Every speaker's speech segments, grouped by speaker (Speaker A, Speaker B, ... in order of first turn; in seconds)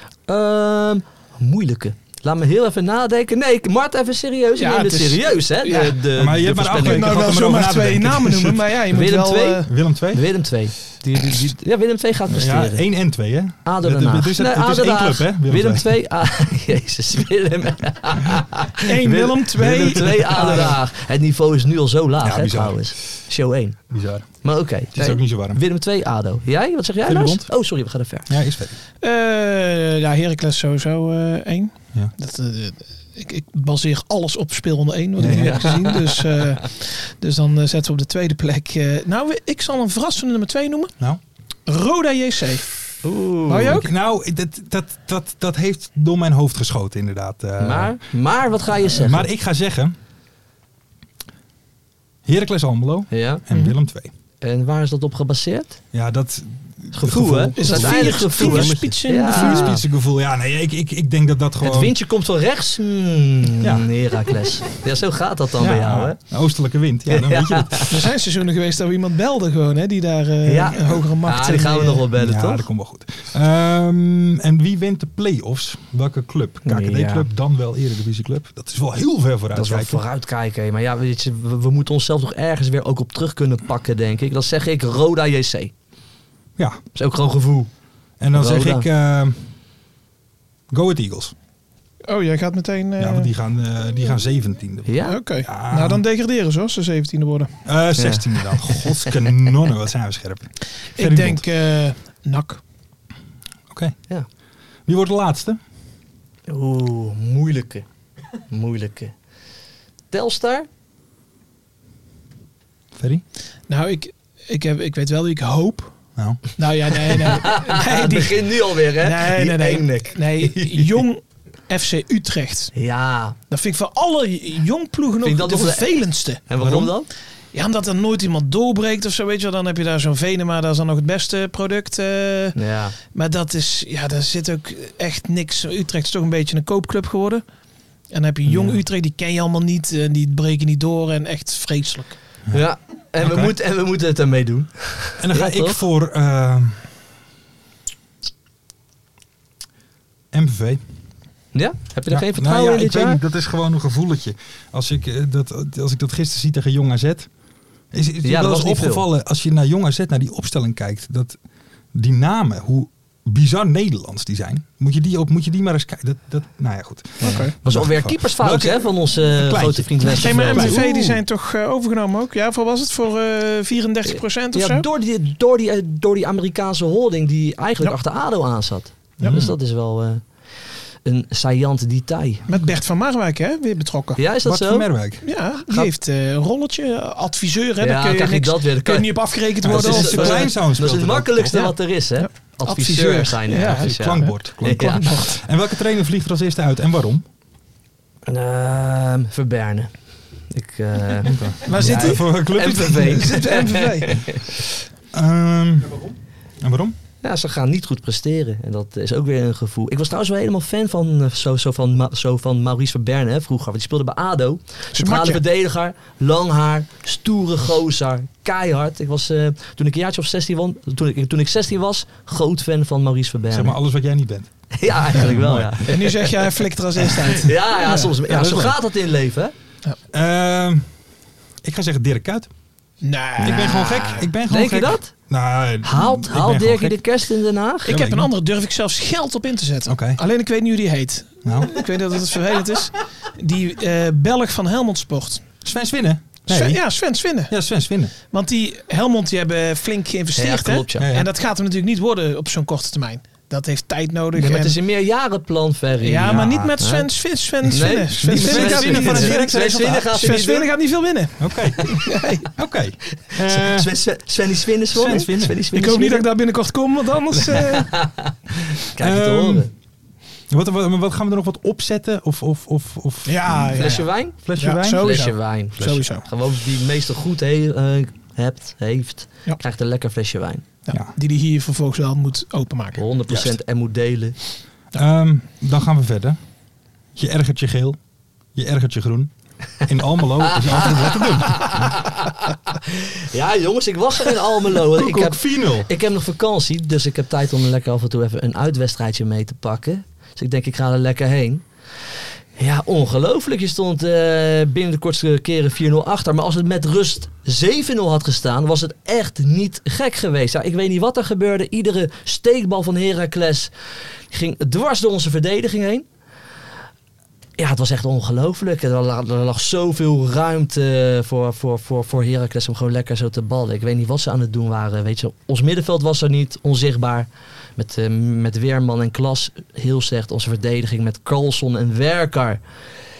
Speaker A: 0.3-7.3, 8.9-12.8, 13.6-23.8, 24.4-28.3, 35.3-36.2, 43.0-43.8, 47.6-49.3, 53.1-53.4, 54.4-55.8, 56.9-59.8, 61.6-66.2, 67.1-67.9, 70.5-72.7, 76.6-77.3, 79.5-85.7, 86.9-87.7, 88.3-88.9, 94.9-95.2, 98.0-99.1, 106.5-107.9, 108.5-109.1, 110.1-110.7, 117.1-121.0, 122.7-123.4, 125.2-126.0, 126.5-127.1, 132.6-132.9, 138.5-138.8, 142.5-145.8, 151.5-153.2, 158.2-159.1, 167.2-170.8, 174.1-180.2, 181.1-182.5, 184.2-184.9, 187.8-195.2, 198.3-199.9, 200.5-204.6, 207.2-223.8, 224.7-226.3, 227.3-229.5, 233.4-235.1, 235.8-237.9, 250.4-251.1, 254.3-257.1, 257.7-260.7, 263.5-266.3, 267.6-269.7, 273.8-274.4, 274.9-280.7, 283.0-284.4, 290.4-301.6, 302.6-313.7, 314.3-316.1, 317.6-332.6
Speaker B: 4.6-6.0, 6.7-9.7, 18.8-20.8, 29.0-40.9, 41.7-42.7, 43.5-43.9, 57.6-59.8, 67.9-72.1, 92.1-93.3, 95.1-97.5, 101.0-102.6, 113.7-115.9, 116.6-122.7, 123.5-126.5, 127.5-132.6, 133.1-137.4, 138.1-142.2, 167.2-167.5, 170.1-174.9, 182.5-184.2, 185.2-190.5, 191.6-195.3, 201.7-204.2, 214.9-215.4, 225.9-228.1, 233.0-234.2, 237.9-245.4, 246.5-247.5, 248.3-254.8, 256.0-262.5, 265.7-267.9, 273.3-276.3, 280.9-283.0
Speaker C: 6.2-8.8, 9.6-10.2, 12.3-15.9, 19.1-20.8, 22.2-22.9, 23.9-24.3, 24.9-25.6, 27.1-27.5, 28.3-28.8, 35.2-35.6, 43.7-48.0, 48.9-50.0, 52.2-54.1, 55.9-62.0, 63.6-63.9, 65.6-68.0, 72.2-80.0, 88.2-89.4, 90.7-91.3, 93.0-96.0, 97.7-101.5, 103.7-104.0, 104.9-105.6, 113.0-113.2, 116.2-116.4, 126.6-126.9, 143.2-143.5, 145.2-146.8, 150.3-150.8, 152.1-157.3, 157.9-161.4, 161.9-171.2, 179.2-179.6, 184.4-185.3, 189.6-191.7, 193.6-197.2, 201.2-203.4, 205.1-206.9, 223.5-225.9, 228.3-228.8, 230.1-230.9, 231.6-232.5, 233.4-237.0, 237.9-238.3, 239.9-240.2, 241.4-241.7, 245.7-246.8, 247.5-248.1, 251.0-251.3, 256.3-256.8, 257.8-260.4, 261.4-261.9, 262.6-263.9, 264.9-265.6, 269.0-269.7, 270.5-275.4, 283.3-283.6, 284.9-286.4, 287.2-288.0, 288.6-289.3, 289.8-292.0, 294.9-295.9